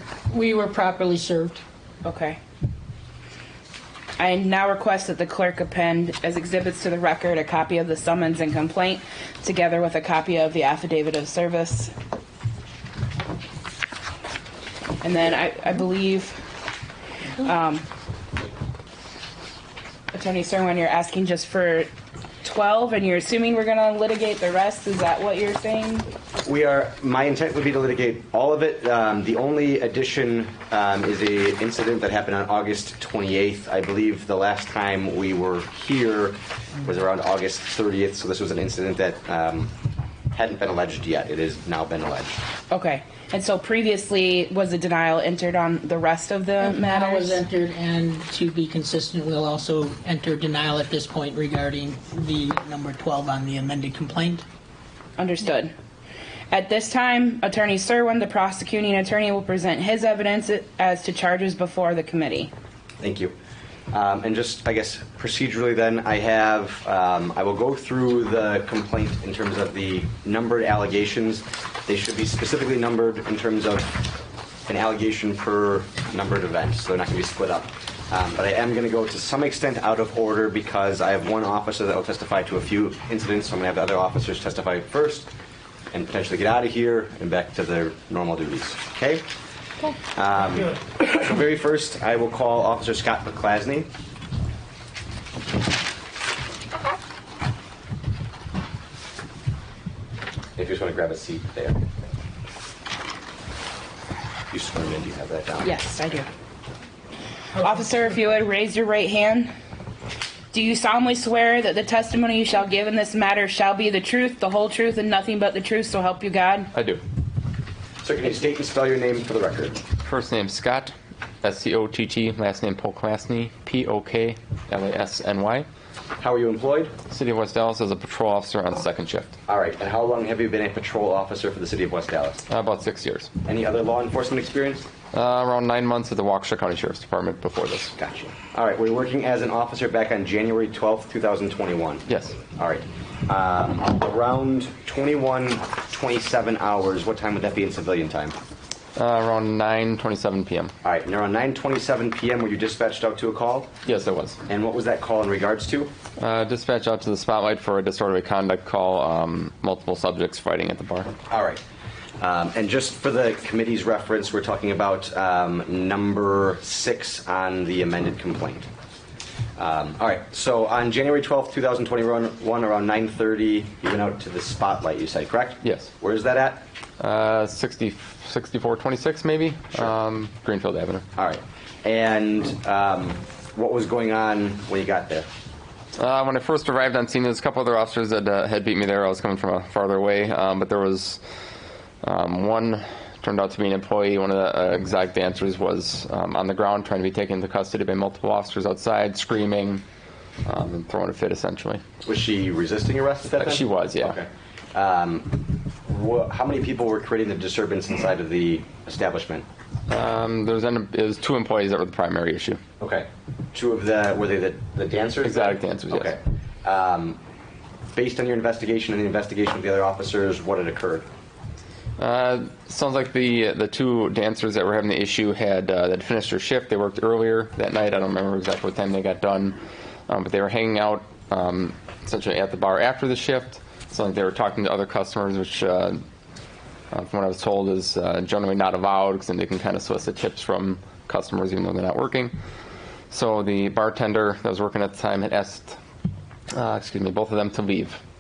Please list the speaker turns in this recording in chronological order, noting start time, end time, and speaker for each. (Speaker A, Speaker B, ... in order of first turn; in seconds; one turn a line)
Speaker A: 0.3-1.6
Speaker B: 2.0-2.4
Speaker B: 4.2-11.9
Speaker B: 15.0-16.4
Speaker B: 17.4-17.9
Speaker B: 20.1-21.9
Speaker B: 22.4-26.1
Speaker C: 26.4-39.7
Speaker C: 40.3-42.3
Speaker B: 42.7-47.4
Speaker A: 46.7-54.5
Speaker B: 55.2-55.7
Speaker B: 56.5-62.5
Speaker C: 63.0-63.3
Speaker C: 63.9-74.1
Speaker C: 74.7-85.3
Speaker C: 85.9-89.2
Speaker C: 90.1-93.9
Speaker C: 100.6-101.8
Speaker C: 104.5-105.7
Speaker B: 105.6-106.3
Speaker B: 107.6-109.5
Speaker B: 110.5-116.7
Speaker D: 116.7-117.0
Speaker C: 118.0-119.8
Speaker D: 120.0-125.7
Speaker C: 126.2-126.9
Speaker D: 127.1-129.4
Speaker C: 129.5-132.4
Speaker D: 132.5-133.3
Speaker C: 133.4-134.8
Speaker D: 135.1-138.0
Speaker C: 138.0-148.4
Speaker D: 142.1-142.4
Speaker D: 149.0-150.7
Speaker C: 150.8-153.7
Speaker D: 153.8-154.4
Speaker C: 154.5-155.9
Speaker D: 156.2-161.1
Speaker C: 161.3-161.6
Speaker C: 162.2-168.7
Speaker C: 169.6-176.7
Speaker D: 175.6-175.9
Speaker D: 177.0-181.1
Speaker C: 181.2-185.3
Speaker D: 186.0-191.2
Speaker D: 192.0-199.8
Speaker D: 200.5-201.8
Speaker C: 202.0-209.5
Speaker D: 203.4-204.2
Speaker D: 209.9-212.6
Speaker C: 212.8-217.2
Speaker D: 215.2-216.1
Speaker C: 217.9-221.1
Speaker D: 222.0-229.6
Speaker D: 230.1-236.0
Speaker D: 236.9-242.3
Speaker D: 243.1-245.8
Speaker D: 246.5-248.0